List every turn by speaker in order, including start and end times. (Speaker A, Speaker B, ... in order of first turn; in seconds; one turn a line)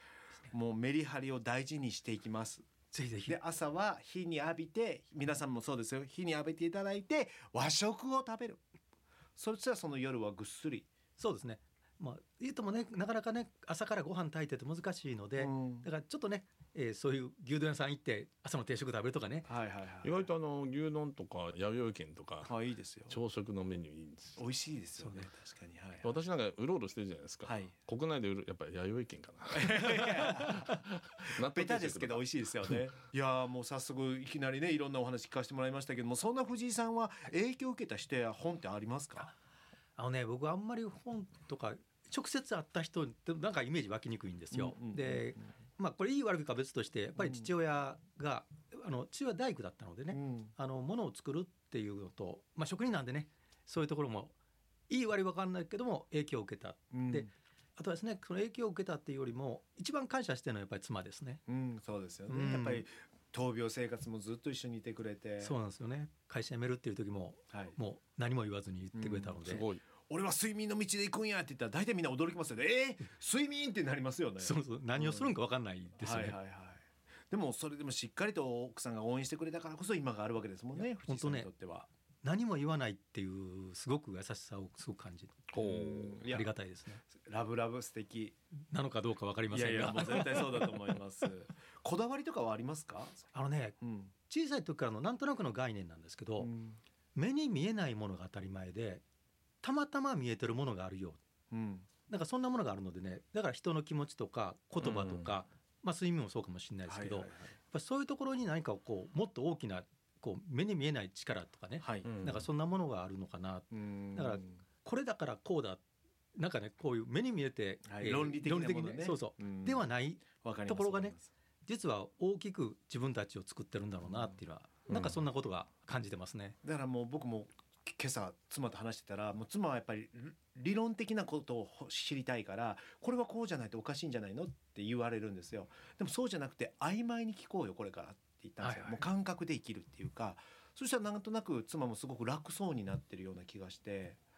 Speaker A: 0.5-2.7
Speaker B: 2.9-3.4
Speaker A: 3.3-8.6
Speaker A: 9.3-10.9
Speaker B: 11.2-19.5
Speaker A: 15.4-15.9
Speaker A: 19.4-20.2
Speaker C: 20.0-22.5
Speaker A: 22.4-23.2
Speaker C: 23.1-24.4
Speaker A: 24.4-26.1
Speaker B: 25.0-25.3
Speaker C: 26.0-32.2
Speaker A: 27.4-27.7
Speaker A: 29.5-39.3
Speaker B: 40.0-54.3
Speaker A: 44.5-45.5
Speaker A: 47.2-47.5
Speaker A: 50.1-50.5
Speaker B: 54.9-61.4
Speaker A: 56.9-57.3
Speaker A: 61.5-65.5
Speaker B: 62.3-62.9
Speaker B: 65.4-69.7
Speaker A: 68.9-75.3
Speaker C: 69.4-69.8
Speaker B: 74.4-76.4
Speaker A: 76.0-81.9
Speaker B: 80.7-81.5
Speaker B: 82.2-85.5
Speaker C: 85.5-86.3
Speaker A: 85.5-86.5
Speaker B: 86.3-87.0
Speaker A: 87.0-88.3
Speaker B: 88.7-90.7
Speaker A: 89.5-93.3
Speaker B: 93.3-96.5
Speaker A: 93.8-94.1
Speaker A: 96.4-96.8
Speaker B: 97.1-99.0
Speaker B: 99.6-101.2
Speaker A: 101.5-101.9
Speaker B: 102.1-115.8
Speaker C: 104.8-105.3
Speaker A: 106.9-107.6
Speaker A: 111.8-112.1
Speaker C: 112.0-112.5
Speaker A: 113.7-114.6
Speaker B: 116.3-126.6
Speaker A: 117.9-119.8
Speaker A: 120.3-121.3
Speaker A: 124.0-124.4
Speaker A: 126.6-144.2
Speaker B: 138.6-139.0